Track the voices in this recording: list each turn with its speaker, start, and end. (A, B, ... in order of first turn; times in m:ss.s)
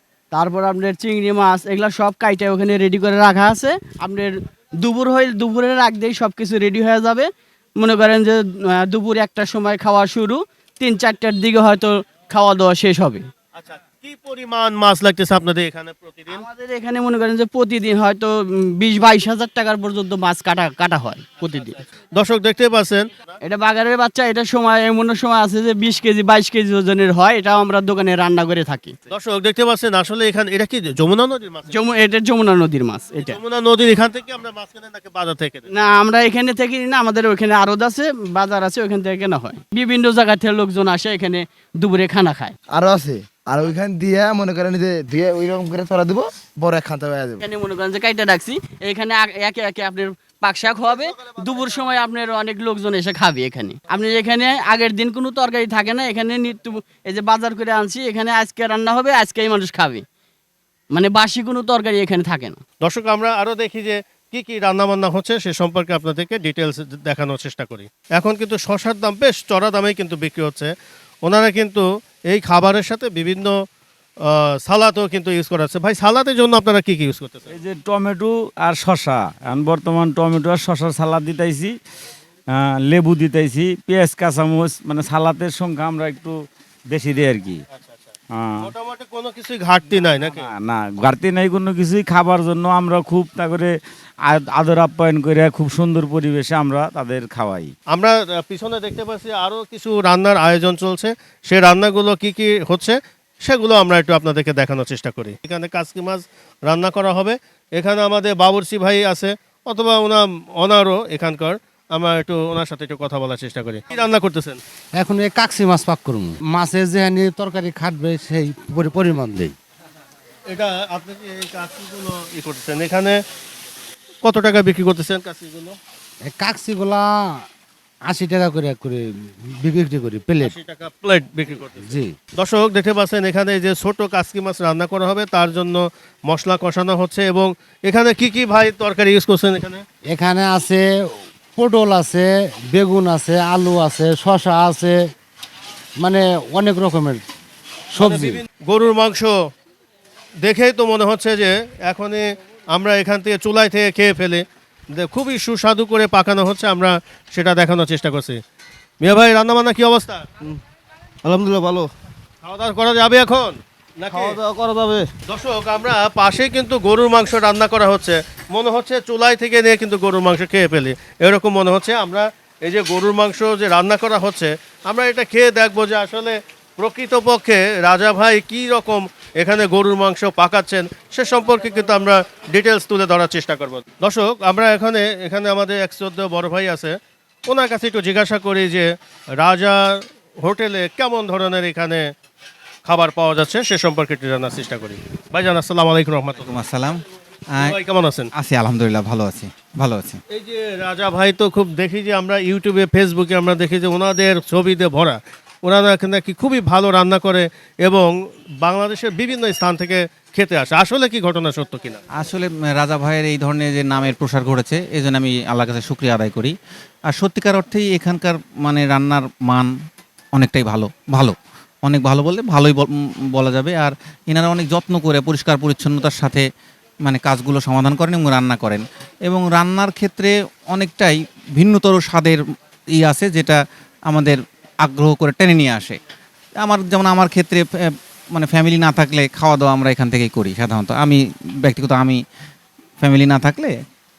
0:00.3-0:13.3 A
0:13.6-0:16.4 B
0:16.3-0:21.8 A
0:21.5-0:23.4 B
0:23.4-0:29.0 A
0:29.1-0:31.8 B
0:31.7-0:33.4 A
0:33.2-0:35.7 B
0:35.7-0:42.6 A
0:42.7-0:47.4 C
0:47.4-1:00.0 A
1:00.9-1:02.6 A
1:02.8-1:10.7 B
1:11.2-1:13.6 B
1:14.2-1:17.5 B
1:17.5-1:21.7 D
1:22.6-1:26.4 D
1:26.9-1:27.6 D
1:28.3-1:28.7 D
1:28.6-1:30.5 B
1:30.5-1:33.7 D
1:34.3-1:37.7 D
1:37.9-1:54.6 B
1:55.0-1:59.5 E
2:00.5-2:03.2 B
2:04.2-2:05.8 B
2:06.3-2:07.1 E
2:08.1-2:09.0 E
2:09.6-2:10.6 E
2:10.4-2:19.8 B
2:11.9-2:12.1 E
2:20.1-2:20.8 E
2:21.6-2:25.0 E
2:26.0-2:27.2 E
2:28.0-2:28.4 E
2:28.0-2:29.4 B
2:30.4-2:38.4 B
2:39.0-2:40.3 B
2:41.3-2:41.9 C
2:42.4-2:44.4 B
2:44.6-2:45.0 C
2:45.3-3:12.1 B
3:12.9-3:16.6 B
3:16.4-3:17.0 F
3:17.6-3:18.3 B
3:18.4-3:20.2 F
3:20.3-3:32.0 B
3:32.2-3:36.6 F
3:37.1-3:39.7 F
3:40.4-3:46.4 F
3:47.0-3:52.4 F
3:53.0-3:56.0 F
3:56.6-4:02.2 F
4:03.0-4:03.8 F